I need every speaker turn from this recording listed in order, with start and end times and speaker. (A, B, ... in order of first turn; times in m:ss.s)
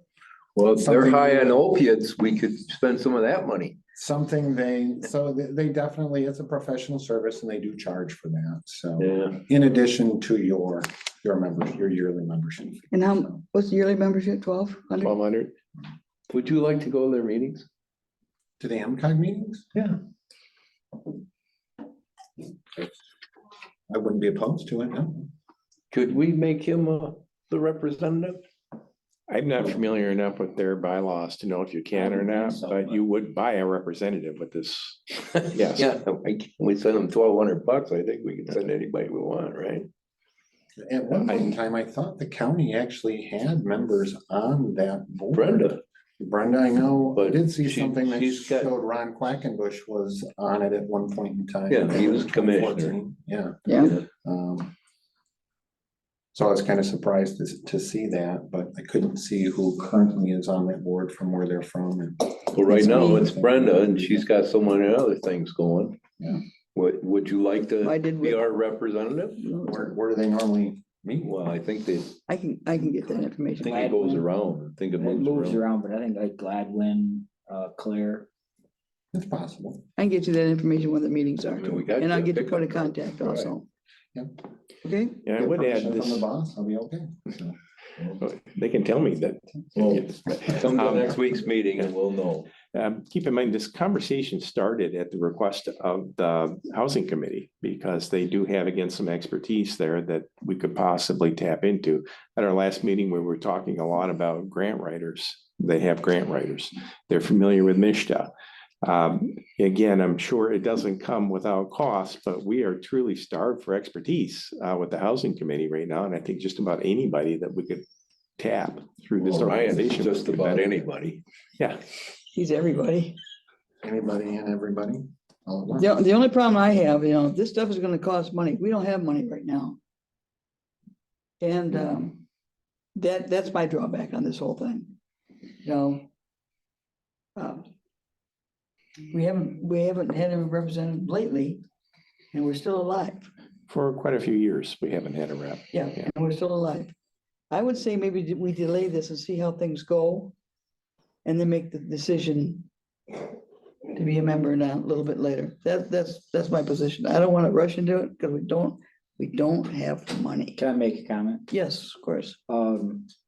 0:00.6-0:03.8 A
0:00.8-0:01.6 B
0:04.0-0:13.4 B
0:09.0-0:09.4 A
0:12.9-0:15.1 C
0:15.0-0:15.6 D
0:16.3-0:17.7 A
0:18.6-0:19.7 B
0:23.9-0:25.3 B
0:25.9-0:28.4 A
0:29.3-0:35.9 D
0:32.0-0:33.0 E
0:35.4-0:39.9 A
0:40.9-0:54.7 B
0:45.3-0:45.8 A
0:47.2-0:48.7 A
0:51.7-0:53.0 A
0:53.7-0:54.0 C
0:56.4-1:04.3 B
1:02.5-1:06.0 A
1:02.7-1:03.2 C
1:06.8-1:09.4 A
1:07.8-1:08.5 C
1:09.4-1:10.0 C
1:09.6-1:11.3 B
1:11.2-1:12.2 A
1:12.3-1:14.2 C
1:13.6-1:15.6 A
1:13.7-1:14.2 E
1:15.0-1:18.3 E
1:19.1-1:19.8 B
1:20.0-1:23.6 C
1:21.6-1:23.1 A
1:24.8-1:25.2 C
1:25.2-1:26.3 D
1:25.3-1:27.6 B
1:28.1-1:31.2 D
1:30.5-1:32.5 A
1:32.7-1:48.3 D
1:48.8-1:57.8 D
1:58.4-2:00.7 D
1:59.2-2:01.2 A
2:02.3-2:03.2 C
2:03.8-2:05.9 B
2:05.7-2:09.8 C
2:11.4-2:12.2 C
2:13.0-2:15.0 C
2:15.6-2:16.1 C
2:17.4-2:17.7 C
2:19.1-2:21.6 C
2:22.3-2:23.3 C
2:23.7-2:26.1 D
2:25.7-2:26.9 C
2:27.5-2:30.4 C
2:31.2-2:32.7 C
2:34.0-2:40.6 C
2:40.6-2:41.5 E
2:41.5-2:42.4 C
2:42.5-2:43.1 E